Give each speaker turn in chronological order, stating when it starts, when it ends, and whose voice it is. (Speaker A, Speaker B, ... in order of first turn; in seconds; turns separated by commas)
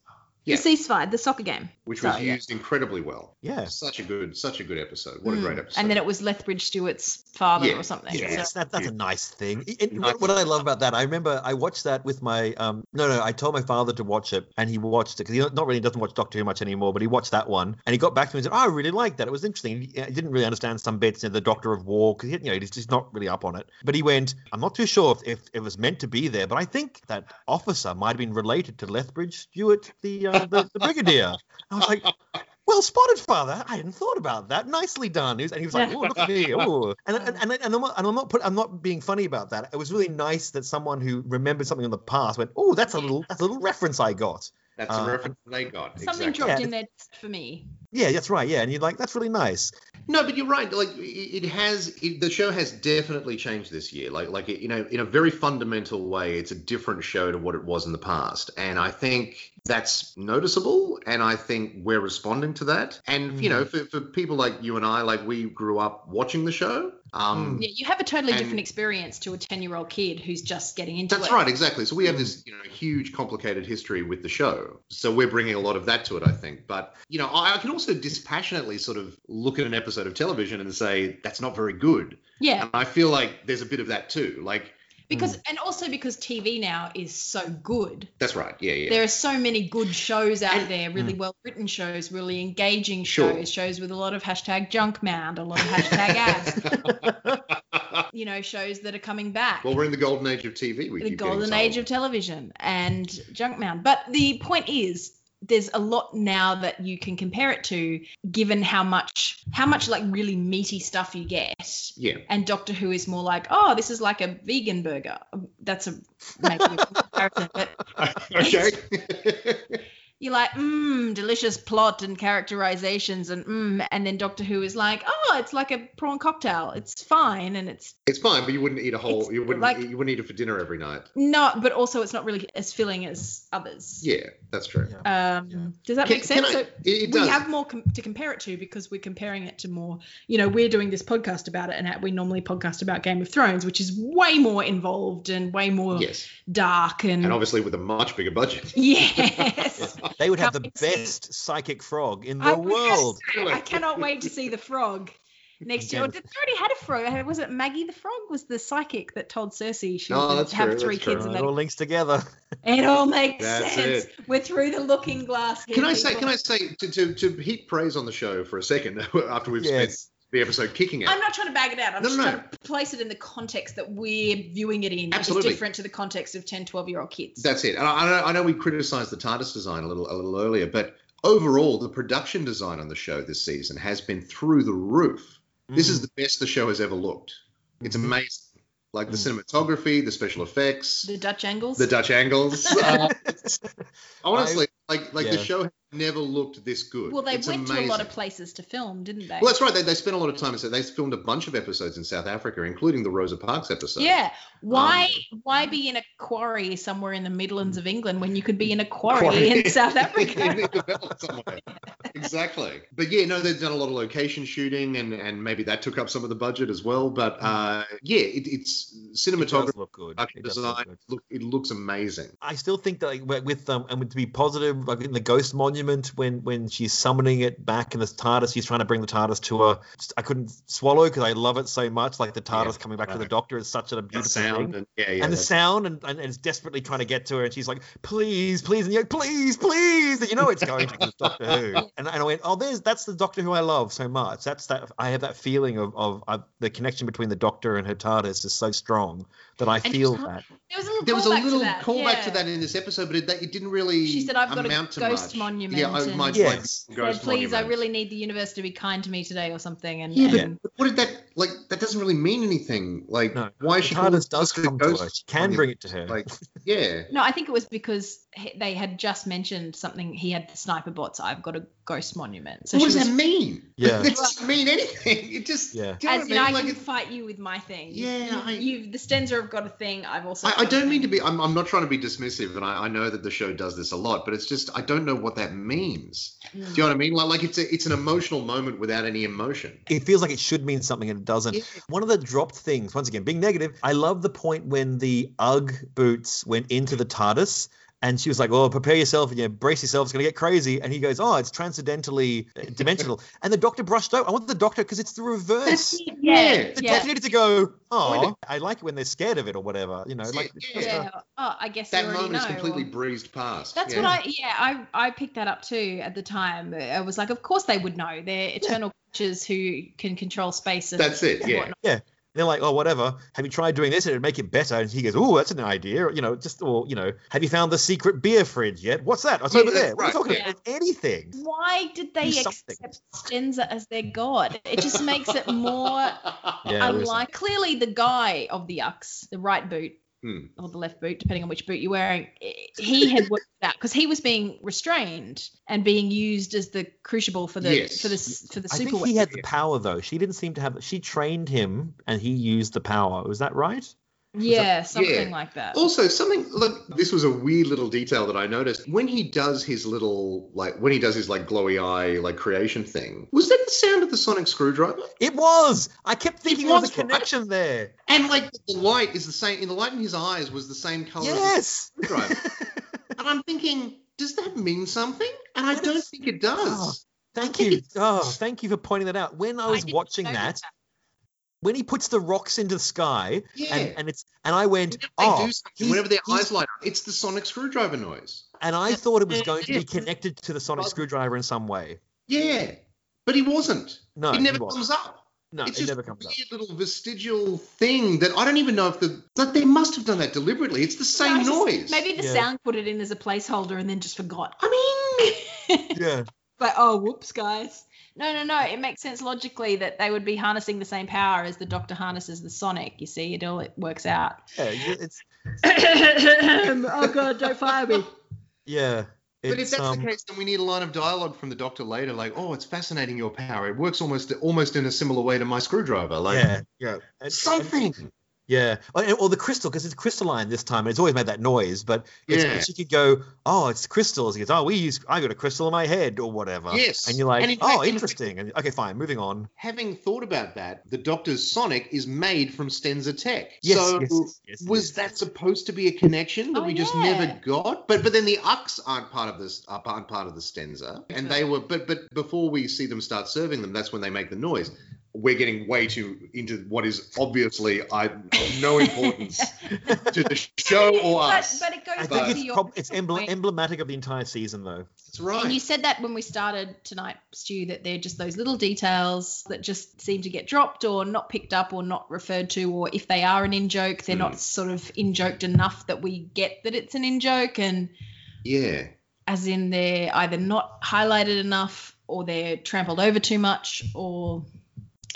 Speaker A: 0.5-2.4, Speaker B: 1.9-6.0, Speaker C: 3.4-3.7, Speaker A: 5.2-8.5, Speaker B: 7.6-8.9, Speaker C: 8.1-32.1, Speaker B: 9.9-10.4, Speaker B: 30.4-30.8, Speaker C: 32.7-45.3, Speaker B: 36.1-36.7, Speaker A: 37.2-37.4, Speaker B: 44.8-46.6, Speaker A: 46.0-47.7, Speaker C: 46.4-46.7, Speaker C: 47.9-49.7, Speaker B: 50.1-67.7, Speaker C: 63.3-63.7, Speaker C: 67.3-67.6, Speaker A: 67.6-71.4, Speaker B: 68.3-68.6, Speaker B: 71.1-84.8, Speaker C: 72.1-72.3, Speaker A: 82.4-82.7, Speaker A: 85.1-88.1, Speaker C: 85.1-85.4, Speaker B: 88.2-89.0, Speaker A: 88.9-96.7, Speaker B: 93.0-93.5, Speaker B: 95.9-98.0, Speaker C: 96.7-97.4, Speaker A: 98.1-99.8, Speaker B: 99.6-101.8, Speaker A: 101.0-117.8, Speaker B: 112.0-112.2, Speaker B: 118.0-119.8, Speaker A: 118.3-118.8, Speaker A: 120.2-128.0, Speaker B: 128.1-131.1, Speaker A: 129.1-129.8, Speaker A: 131.2-134.1, Speaker B: 134.0-135.0, Speaker C: 134.8-135.7, Speaker A: 135.0-147.4, Speaker B: 136.1-137.4, Speaker B: 145.9-146.3, Speaker B: 147.2-149.7, Speaker A: 148.7-151.1, Speaker C: 149.8-153.2, Speaker A: 152.4-161.5, Speaker B: 153.2-154.3, Speaker C: 155.8-156.2, Speaker B: 160.1-161.3, Speaker C: 161.1-162.2, Speaker A: 162.6-166.3, Speaker B: 163.4-164.1, Speaker B: 165.7-171.2, Speaker C: 169.6-170.0, Speaker A: 171.1-177.5, Speaker B: 172.0-172.4, Speaker B: 175.1-175.6, Speaker B: 177.4-191.1, Speaker C: 185.7-186.1, Speaker C: 187.8-188.1, Speaker A: 191.0-191.9, Speaker B: 191.8-193.3, Speaker A: 192.6-193.1, Speaker C: 192.8-193.8, Speaker B: 194.2-198.1, Speaker C: 194.3-194.6, Speaker C: 195.2-195.5, Speaker A: 197.1-199.6, Speaker B: 199.4-204.2, Speaker A: 204.0-210.7, Speaker B: 204.7-205.2, Speaker B: 209.1-222.3, Speaker C: 219.4-221.0, Speaker C: 222.4-250.4, Speaker B: 232.5-233.3, Speaker B: 234.1-235.5, Speaker B: 240.7-241.6, Speaker A: 249.8-252.4, Speaker B: 251.0-257.8, Speaker A: 254.0-260.6, Speaker C: 256.3-256.8, Speaker B: 260.1-267.1, Speaker C: 263.3-266.3, Speaker A: 267.1-273.1, Speaker B: 272.7-276.8, Speaker C: 273.8-274.1, Speaker A: 274.0-274.4, Speaker C: 275.7-276.0, Speaker A: 276.0-281.2, Speaker B: 277.9-278.7, Speaker B: 280.4-289.9, Speaker A: 286.5-286.8, Speaker C: 289.9-306.0, Speaker B: 291.5-291.8, Speaker B: 305.7-307.1, Speaker A: 306.1-307.1, Speaker C: 306.8-311.1, Speaker B: 308.0-308.3, Speaker B: 310.3-311.0, Speaker A: 310.8-312.9, Speaker B: 311.9-314.1, Speaker A: 313.8-321.8, Speaker B: 321.0-321.7, Speaker C: 321.5-331.4, Speaker B: 329.5-330.4, Speaker A: 331.3-336.2, Speaker C: 332.2-332.8, Speaker B: 335.0-336.6, Speaker C: 336.6-337.2, Speaker A: 336.8-340.0, Speaker B: 340.2-340.5, Speaker A: 340.6-349.2, Speaker B: 347.6-348.2, Speaker C: 348.7-353.9, Speaker A: 354.3-355.8, Speaker B: 354.9-365.1, Speaker C: 365.2-367.9, Speaker B: 366.5-367.2, Speaker B: 368.1-372.4, Speaker C: 371.2-372.8, Speaker B: 373.2-378.3, Speaker C: 375.7-376.1, Speaker C: 376.6-380.6, Speaker A: 379.7-380.7, Speaker C: 381.6-386.5, Speaker B: 383.6-384.0, Speaker B: 384.9-388.5, Speaker C: 388.6-392.0, Speaker B: 389.3-389.9, Speaker B: 392.3-402.0, Speaker C: 394.2-394.8, Speaker C: 395.5-396.4, Speaker A: 401.1-406.0, Speaker C: 402.2-402.5, Speaker C: 405.9-406.3, Speaker A: 406.6-414.5, Speaker C: 414.6-415.2, Speaker A: 415.6-418.1, Speaker C: 418.7-420.1, Speaker B: 419.5-426.5, Speaker C: 426.3-427.8, Speaker B: 427.3-428.1, Speaker C: 428.5-439.5, Speaker B: 432.3-432.7, Speaker B: 436.7-438.2, Speaker B: 439.6-462.4, Speaker C: 443.6-445.2, Speaker A: 446.5-447.4, Speaker A: 458.3-460.1, Speaker A: 460.6-463.3, Speaker C: 462.0-464.9, Speaker B: 465.1-465.6, Speaker A: 465.4-477.9, Speaker B: 474.1-474.4, Speaker B: 478.4-478.9, Speaker A: 479.3-484.5